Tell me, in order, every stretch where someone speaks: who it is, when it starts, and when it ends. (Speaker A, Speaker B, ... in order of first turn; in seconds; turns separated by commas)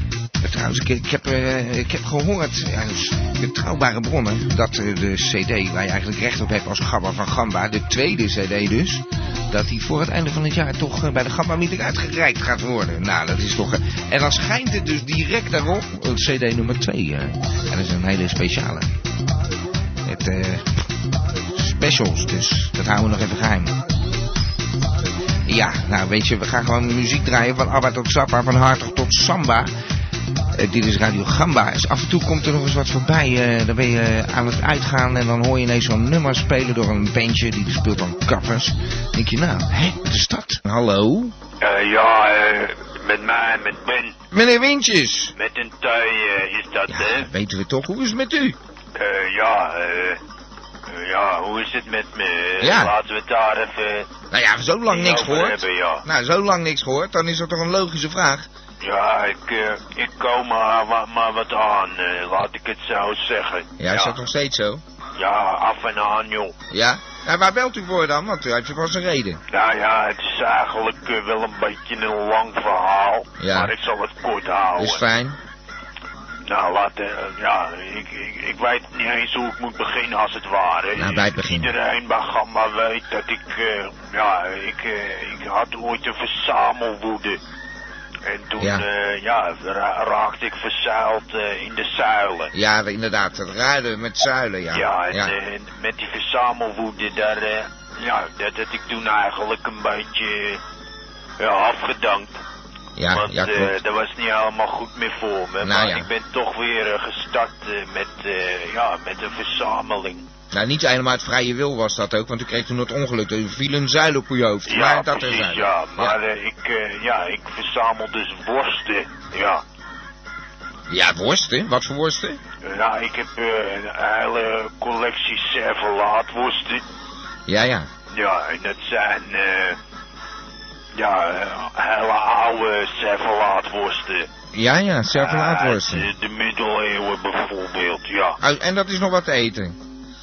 Speaker A: 0.4-18.9, Speaker A: 20.1-20.9, Speaker A: 21.5-23.8, Speaker A: 25.5-29.7, Speaker A: 30.5-41.4, Speaker B: 41.6-44.2, Speaker A: 44.3-45.3, Speaker B: 45.4-47.3, Speaker A: 46.9-48.6, Speaker B: 49.0-50.2, Speaker B: 50.9-54.1, Speaker A: 52.6-52.9, Speaker A: 54.3-58.5, Speaker B: 54.9-56.0, Speaker B: 58.8-64.2, Speaker A: 63.8-64.8, Speaker B: 65.2-66.5, Speaker A: 66.7-69.4, Speaker B: 69.5-75.0, Speaker A: 73.4-73.7, Speaker A: 74.8-75.4, Speaker B: 76.4-87.4, Speaker A: 81.0-81.7, Speaker B: 88.3-92.5, Speaker A: 88.6-88.9, Speaker A: 92.5-95.3, Speaker B: 94.7-100.6, Speaker B: 101.4-102.4, Speaker A: 103.0-103.7, Speaker B: 103.1-110.3, Speaker A: 105.6-106.1, Speaker A: 110.5-116.2, Speaker B: 114.7-119.6, Speaker A: 120.9-122.4, Speaker B: 122.6-126.8, Speaker A: 127.5-127.9, Speaker B: 128.1-129.8, Speaker B: 130.9-134.3, Speaker A: 134.5-136.1, Speaker B: 135.1-138.4, Speaker A: 138.4-139.8